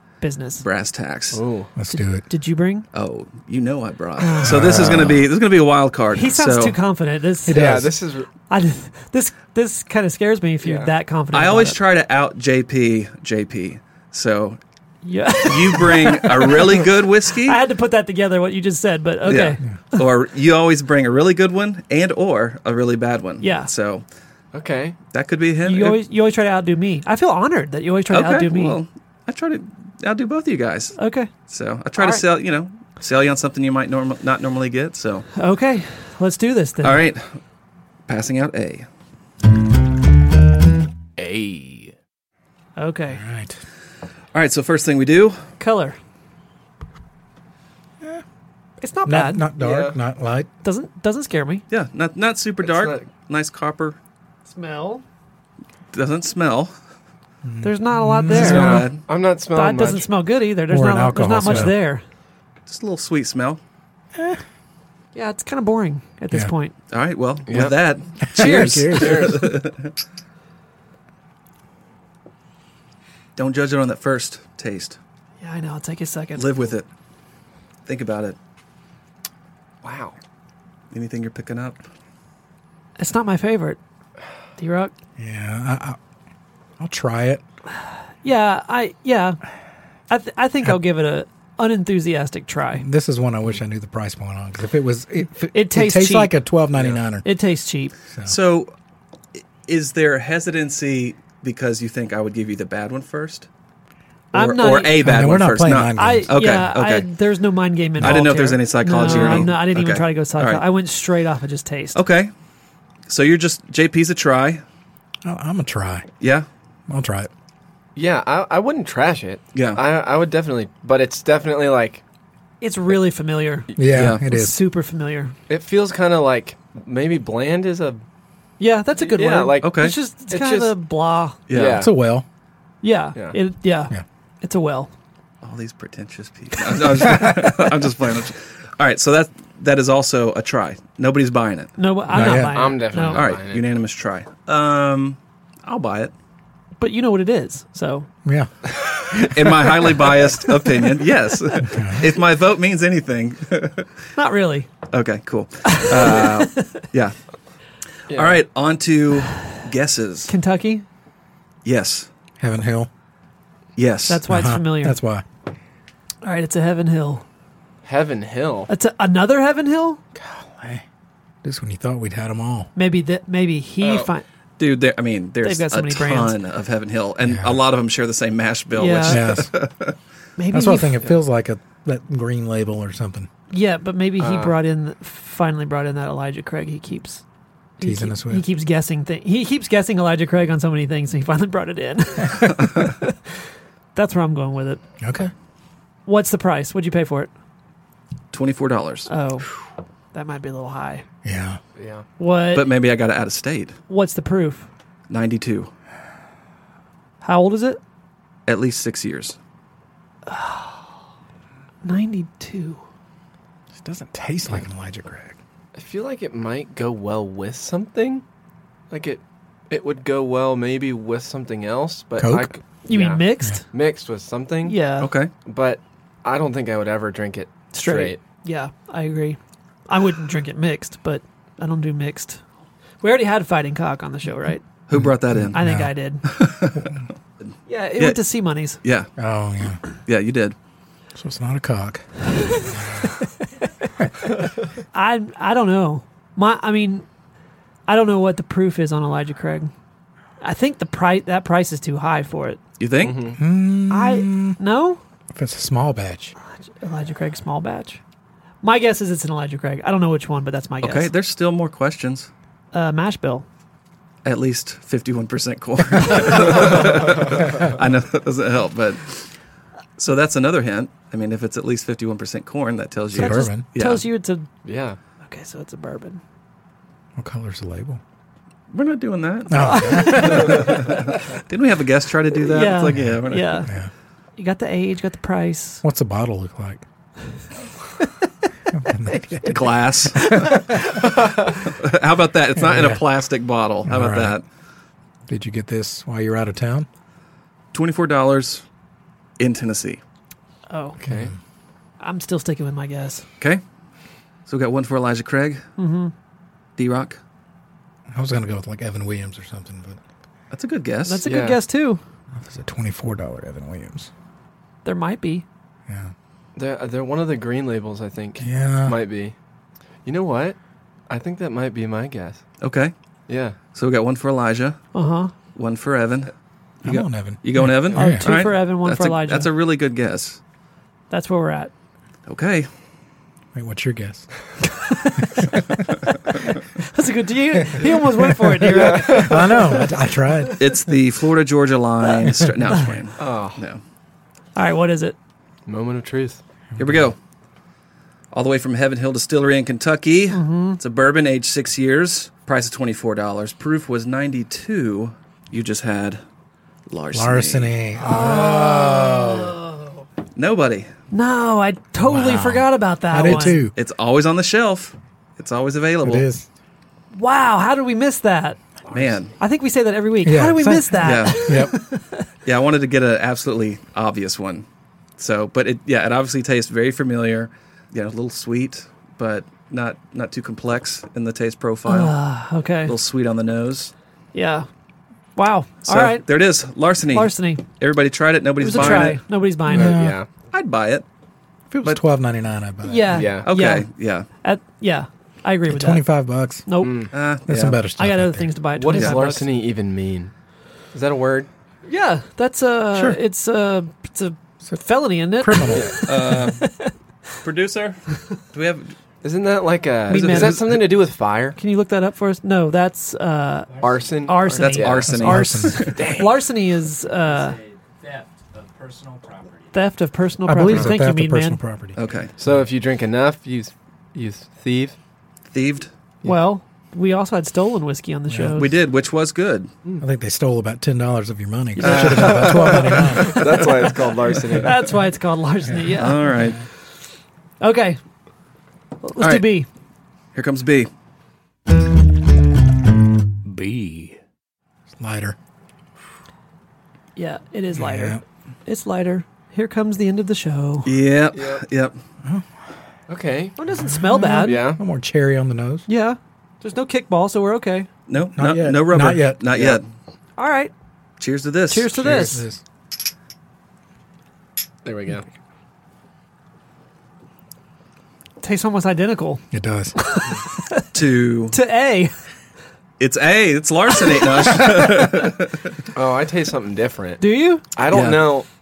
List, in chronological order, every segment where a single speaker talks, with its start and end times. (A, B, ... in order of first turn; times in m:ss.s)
0:00.2-0:00.6 A
0:00.6-0:01.4 B
0:01.3-0:01.7 C
0:01.8-0:02.2 D
0:01.9-0:02.9 A
0:02.9-0:06.8 B
0:04.2-0:04.8 A
0:04.4-0:05.2 D
0:06.1-0:07.7 A
0:07.5-0:07.9 D
0:07.5-0:08.3 C
0:08.5-0:11.8 A
0:10.6-0:10.9 C
0:11.3-0:14.6 B
0:15.0-0:16.7 A
0:15.4-0:17.6 B
0:17.3-0:20.0 A
0:19.3-0:24.0 B
0:23.4-0:23.7 A
0:24.5-0:25.0 C
0:25.1-0:26.0 B
0:25.6-0:28.8 A
0:28.1-0:35.3 B
0:31.0-0:31.3 A
0:32.0-0:32.2 A
0:35.4-0:37.0 A
0:36.8-0:37.3 B
0:38.1-0:38.9 B
0:41.2-0:41.9 C
0:42.8-0:43.2 A
0:43.1-0:43.6 D
0:44.3-0:45.4 B
0:45.6-0:46.0 A
0:48.8-0:49.5 A
0:49.1-0:50.5 D
0:49.6-0:50.0 C
0:50.6-0:51.6 A
0:51.7-0:54.0 B
0:52.6-0:53.1 C
0:54.5-0:55.0 A
0:55.9-0:56.7 B
0:57.4-0:58.9 D
0:57.6-0:58.8 A
0:58.3-0:59.0 B
0:58.4-1:00.1 C
0:59.6-1:02.0 A
1:00.7-1:01.8 D
1:02.7-1:03.6 B
1:04.2-1:04.4 D
1:05.2-1:06.7 A
1:06.9-1:09.9 B
1:07.5-1:07.8 C
1:08.3-1:09.4 D
1:08.4-1:09.5 C
1:13.4-1:15.0 B
1:15.4-1:16.5 A
1:16.4-1:16.9 B
1:17.9-1:18.4 B
1:19.8-1:20.2 C
1:20.9-1:21.8 B
1:23.0-1:23.8 A
1:24.6-1:24.9 A
1:25.2-1:26.0 D
1:26.8-1:27.4 D
1:28.2-1:29.4 A
1:30.1-1:32.9 A
1:32.8-1:37.3 D
1:35.5-1:36.4 A
1:37.2-1:38.0 A
1:38.1-1:38.4 D
1:38.3-1:38.7 B
1:39.3-1:43.5 B
1:44.3-1:45.0 A
1:44.3-1:47.1 B
1:45.0-1:46.3 D
1:46.0-1:52.0 A
1:48.0-1:48.3 D
1:48.0-1:50.6 B
1:49.1-1:49.5 D
1:51.9-1:52.3 B
1:53.1-1:54.6 B
1:55.2-1:56.1 D
1:56.2-1:56.5 B
1:56.9-1:57.3 D
1:58.0-2:02.0 C
1:59.5-1:59.8 B
2:02.6-2:03.7 A
2:03.8-2:04.6 D
2:03.9-2:04.2 B
2:04.3-2:05.3 A
2:05.5-2:08.0 C
2:08.6-2:11.4 A
2:09.0-2:10.7 C
2:09.6-2:10.0 B
2:11.5-2:11.9 B
2:11.5-2:11.9 C
2:11.6-2:12.2 D
2:12.8-2:14.9 A
2:15.4-2:21.7 B
2:21.8-2:23.2 A
2:22.1-2:22.6 D
2:22.4-2:23.6 C
2:23.1-2:26.1 B
2:26.8-2:28.1 A
2:28.2-2:28.5 D
2:29.1-2:34.0 B
2:31.6-2:32.1 D
2:34.2-2:34.7 A
2:34.9-2:37.2 B
2:35.7-2:36.7 A
2:38.1-2:38.4 C
2:38.1-2:40.3 B
2:40.3-2:40.8 A
2:41.6-2:42.1 B
2:42.4-2:42.9 D
2:43.8-2:44.3 B
2:44.1-2:45.0 A
2:44.3-2:45.2 D
2:46.2-2:47.2 A
2:47.8-2:48.7 C
2:48.7-2:50.0 A
2:50.2-2:50.8 D
2:51.4-2:52.7 D
2:52.8-2:54.2 A
2:54.6-3:00.0 B
2:55.4-2:56.4 A
2:57.2-2:57.6 D
2:58.8-2:59.2 A
2:59.1-2:59.5 D
3:00.4-3:01.0 A
3:00.5-3:03.3 D
3:03.5-3:07.2 A
3:04.2-3:04.6 C
3:07.8-3:13.2 A
3:07.8-3:08.5 D
3:14.0-3:14.8 A
3:15.0-3:15.3 D
3:16.1-3:17.3 A
3:18.3-3:19.1 B
3:19.1-3:19.5 A
3:20.1-3:21.0 A
3:21.2-3:21.6 D
3:21.8-3:22.0 C
3:22.2-3:22.7 A
3:22.5-3:23.8 B
3:23.9-3:24.7 A
3:25.1-3:25.7 B
3:27.2-3:27.8 A
3:28.5-3:29.4 B
3:30.3-3:30.9 A
3:31.8-3:32.8 A
3:33.8-3:35.4 D
3:35.8-3:38.2 C
3:38.9-3:44.8 C
3:42.2-3:42.5 D
3:42.9-3:43.6 A
3:44.6-3:45.1 A
3:45.0-3:45.3 B
3:45.4-3:48.2 C
3:47.7-3:52.4 A
3:53.0-3:54.6 A
3:54.9-3:55.7 B
3:54.9-3:55.9 D
3:55.5-3:56.2 A
3:56.2-3:57.0 B
3:56.7-3:57.0 D
3:57.7-3:58.8 A
3:58.8-3:59.1 B
3:59.2-3:59.8 D
4:00.0-4:00.6 B
4:01.2-4:03.1 D
4:02.4-4:03.9 A
4:04.9-4:07.0 A
4:07.9-4:09.7 A
4:10.4-4:12.6 A
4:12.8-4:13.2 B
4:13.0-4:13.4 C
4:13.4-4:14.6 D
4:13.9-4:15.0 A
4:15.3-4:16.4 D
4:16.4-4:18.0 A
4:18.6-4:21.1 A
4:20.8-4:22.3 B
4:22.7-4:23.5 A
4:24.2-4:29.3 B
4:30.0-4:34.0 B
4:33.1-4:33.6 D
4:33.2-4:34.5 A
4:34.6-4:35.0 C
4:35.2-4:36.2 A
4:37.2-4:38.0 D
4:38.7-4:43.6 B
4:39.5-4:40.8 D
4:39.6-4:40.8 A
4:42.4-4:43.7 A
4:42.9-4:43.9 D
4:44.4-4:45.8 A
4:45.8-4:46.8 D
4:48.7-4:49.8 D
4:49.1-4:49.6 A
4:49.5-4:50.7 B
4:50.2-4:50.6 A
4:50.3-4:50.6 D
4:51.7-4:54.4 B
4:52.6-4:53.0 D
4:53.8-4:54.4 D
4:55.3-4:56.9 D
4:57.7-4:58.6 B
4:59.4-5:00.0 B
5:00.7-5:01.0 A
5:01.0-5:01.3 C
5:01.0-5:01.4 D
5:02.0-5:03.3 A
5:04.5-5:05.6 B
5:05.8-5:06.1 A
5:06.8-5:07.2 B
5:08.1-5:10.0 D
5:10.5-5:11.2 B
5:11.1-5:12.0 A
5:11.2-5:11.6 C
5:12.3-5:14.1 D
5:14.8-5:15.4 A
5:15.9-5:16.1 D
5:16.6-5:19.3 C
5:18.4-5:19.0 D
5:20.0-5:20.6 C
5:21.1-5:22.4 C
5:22.6-5:22.9 B
5:23.3-5:23.6 C
5:23.7-5:24.9 B
5:24.9-5:25.3 A
5:25.6-5:30.4 B
5:26.8-5:28.3 D
5:27.9-5:29.5 A
5:31.1-5:31.7 A
5:32.3-5:32.7 B
5:33.5-5:34.3 D
5:34.7-5:35.4 A
5:35.3-5:35.9 D
5:36.9-5:39.9 A
5:38.1-5:40.8 D
5:38.7-5:39.5 C
5:40.6-5:43.8 B
5:43.2-5:43.6 C
5:44.6-5:45.2 A
5:45.7-5:46.4 C
5:46.8-5:47.0 D
5:46.8-5:47.2 B
5:48.3-5:56.2 B
5:50.3-5:50.8 A
5:56.9-5:57.7 B
5:57.1-5:59.6 D
5:58.0-6:00.0 A
6:00.4-6:00.9 B
6:01.1-6:03.6 A
6:02.0-6:03.8 D
6:03.2-6:06.3 B
6:06.0-6:06.5 D
6:07.1-6:08.6 A
6:08.9-6:09.3 B
6:09.4-6:12.2 A
6:10.2-6:11.8 D
6:11.0-6:11.7 B
6:12.4-6:14.6 B
6:15.2-6:22.2 B
6:21.9-6:23.0 A
6:22.8-6:23.9 B
6:24.3-6:24.7 A
6:25.4-6:26.3 A
6:25.8-6:29.2 B
6:27.1-6:27.6 A
6:28.6-6:30.0 A
6:28.8-6:29.1 C
6:29.7-6:30.3 C
6:29.7-6:30.2 D
6:30.5-6:31.0 B
6:31.7-6:33.3 D
6:32.8-6:33.9 A
6:33.1-6:33.5 C
6:33.5-6:34.3 B
6:34.4-6:36.1 A
6:35.7-6:36.7 D
6:36.7-6:37.0 A
6:36.8-6:37.1 C
6:37.1-6:37.8 B
6:37.5-6:38.6 D
6:38.0-6:39.5 A
6:38.7-6:40.3 C
6:40.9-6:41.5 C
6:41.9-6:46.9 A
6:42.9-6:43.2 D
6:45.4-6:45.9 D
6:45.8-6:46.0 C
6:46.0-6:46.7 B
6:47.4-6:49.0 B
6:49.2-6:51.6 C
6:50.1-6:50.7 A
6:50.1-6:50.6 B
6:51.6-6:57.6 A
6:53.8-6:55.1 C
6:54.5-6:55.9 B
6:55.1-6:55.9 D
6:56.0-6:56.3 C
6:58.1-6:59.5 D
6:59.7-7:01.6 A
7:00.4-7:02.0 D
7:02.0-7:02.3 B
7:02.4-7:05.0 C
7:05.5-7:05.9 B
7:06.2-7:08.7 A
7:08.3-7:08.6 D
7:08.6-7:09.7 B
7:10.0-7:13.5 D
7:11.8-7:13.9 A
7:11.8-7:14.9 C
7:14.5-7:16.3 A
7:16.0-7:16.6 B
7:17.6-7:18.0 A
7:19.0-7:19.7 A
7:19.2-7:19.5 B
7:20.4-7:20.9 B
7:23.5-7:24.2 D
7:25.0-7:25.4 D
7:27.2-7:30.9 A
7:27.7-7:28.2 D
7:30.8-7:32.0 B
7:31.3-7:31.6 C
7:33.1-7:33.6 C
7:33.6-7:34.6 A
7:33.8-7:35.9 D
7:34.4-7:34.8 C
7:35.9-7:37.9 A
7:38.1-7:39.8 B
7:38.4-7:39.4 D
7:39.5-7:39.8 C
7:40.4-7:40.7 A
7:41.2-7:42.0 B
7:41.7-7:42.4 A
7:41.8-7:42.6 D
7:44.8-7:45.3 C
7:48.4-7:49.4 A
7:49.5-7:50.0 D
7:50.0-7:50.9 A
7:50.9-7:51.6 B
7:51.5-7:52.1 A
7:53.0-7:55.8 B
7:55.9-7:57.2 C
7:57.2-7:57.6 A
7:57.8-7:58.5 C